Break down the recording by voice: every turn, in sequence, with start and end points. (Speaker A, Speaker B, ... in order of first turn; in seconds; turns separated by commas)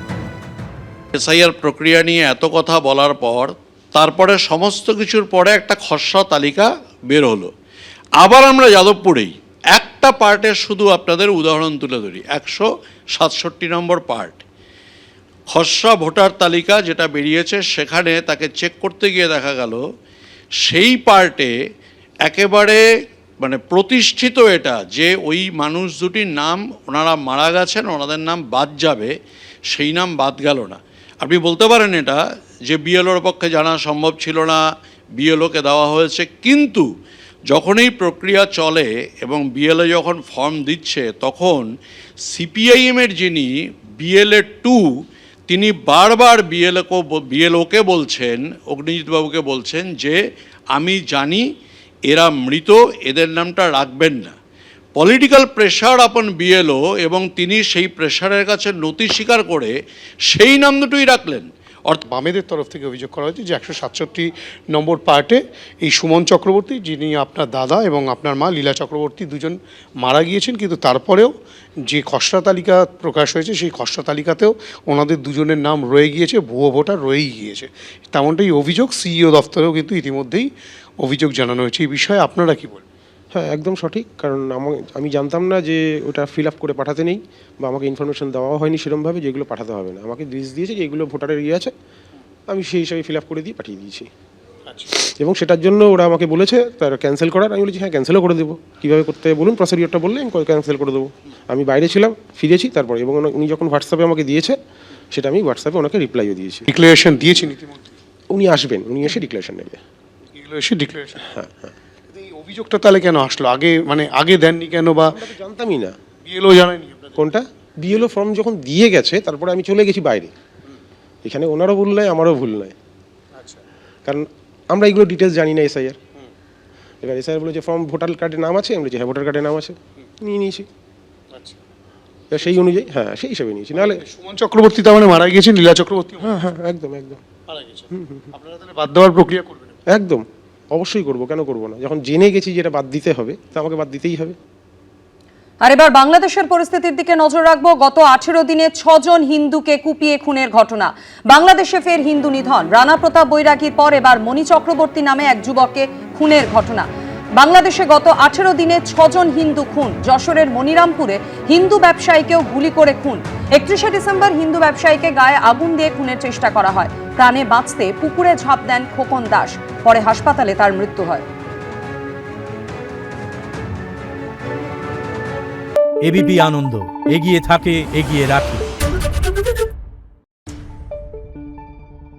Speaker A: 1.1-7.5, Speaker A: 8.2-14.4, Speaker A: 15.5-19.8, Speaker A: 20.6-21.5, Speaker A: 22.2-22.8, Speaker A: 23.4-29.1, Speaker A: 29.7-34.6, Speaker A: 35.2-36.8, Speaker A: 37.5-41.7, Speaker A: 42.3-44.8, Speaker A: 45.5-50.2, Speaker A: 50.7-51.4, Speaker A: 52.1-54.3, Speaker A: 55.0-59.7, Speaker A: 60.3-62.0, Speaker B: 62.0-82.8, Speaker C: 83.3-91.7, Speaker C: 92.5-94.1, Speaker B: 94.7-94.9, Speaker C: 94.9-104.5, Speaker C: 105.1-106.7, Speaker B: 106.7-108.0, Speaker C: 108.3-109.8, Speaker B: 110.3-111.2, Speaker C: 111.2-111.7, Speaker B: 112.1-115.2, Speaker C: 115.1-115.9, Speaker B: 116.2-117.2, Speaker C: 117.2-120.3, Speaker C: 121.2-122.7, Speaker B: 123.3-123.6, Speaker C: 124.0-126.0, Speaker C: 127.0-130.7, Speaker B: 131.3-131.6, Speaker C: 132.3-134.0, Speaker B: 133.7-136.3, Speaker C: 136.2-137.2, Speaker B: 137.5-139.8, Speaker C: 137.9-138.3, Speaker C: 139.9-144.3, Speaker D: 145.6-171.2, Speaker E: 176.0-178.7